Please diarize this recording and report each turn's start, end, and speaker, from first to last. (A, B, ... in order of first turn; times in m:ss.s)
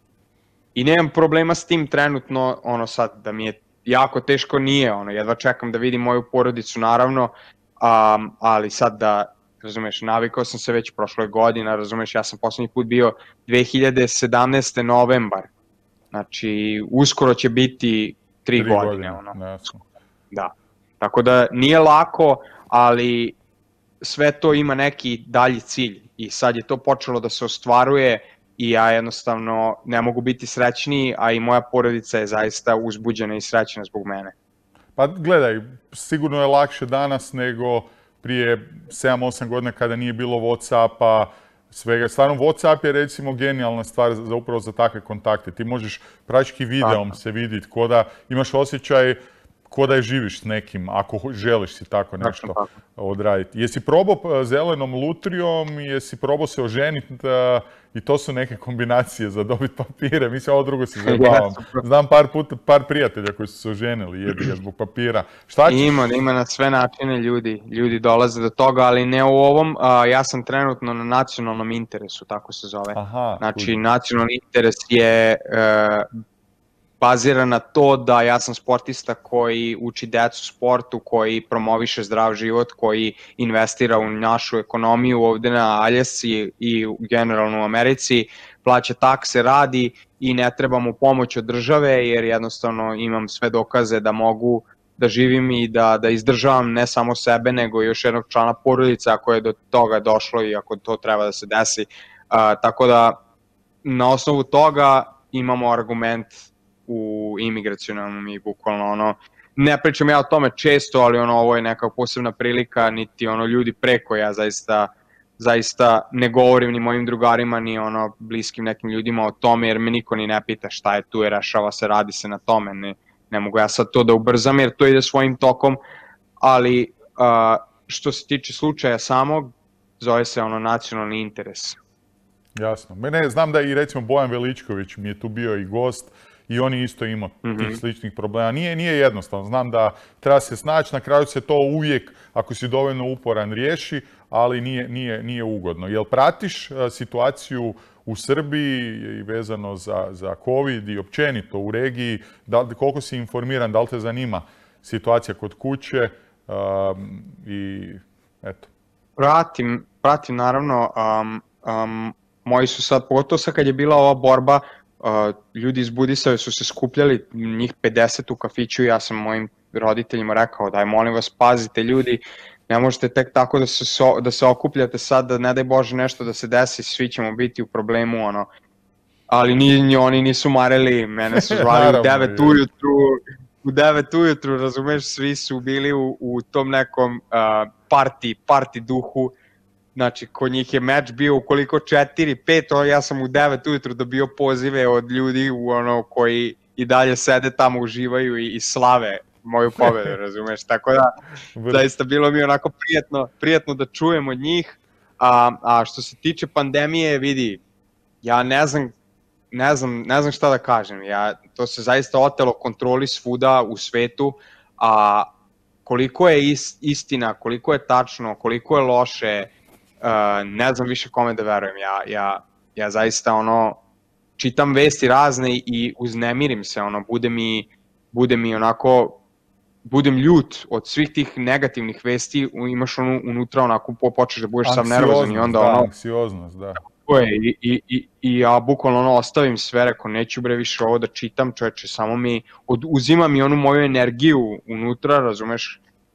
0:00.8-0:15.5 A
0:16.1-0:19.4 A
0:18.6-0:19.8 B
0:20.3-0:23.4 A
0:24.0-0:34.3 A
0:35.0-0:49.2 B
0:46.8-0:47.1 A
0:49.7-1:06.2 B
0:52.2-0:52.7 A
1:01.0-1:01.9 A
1:05.7-1:16.1 A
1:13.0-1:13.8 B
1:17.0-1:43.2 A
1:43.8-2:05.8 A
2:06.4-2:11.8 A
2:12.6-2:38.7 B
2:17.4-2:17.8 A
2:39.2-2:58.5 A
2:59.3-3:09.3 A
3:01.3-3:02.6 B
3:10.0-3:21.1 A
3:21.6-3:21.8 B
3:21.7-3:27.6 A
3:28.2-3:28.9 A
3:29.5-3:35.3 A
3:35.8-3:39.5 A
3:40.0-3:43.8 A
3:44.4-3:49.2 A
3:49.9-3:55.9 A
3:54.6-3:56.8 B
3:57.0-4:05.8 A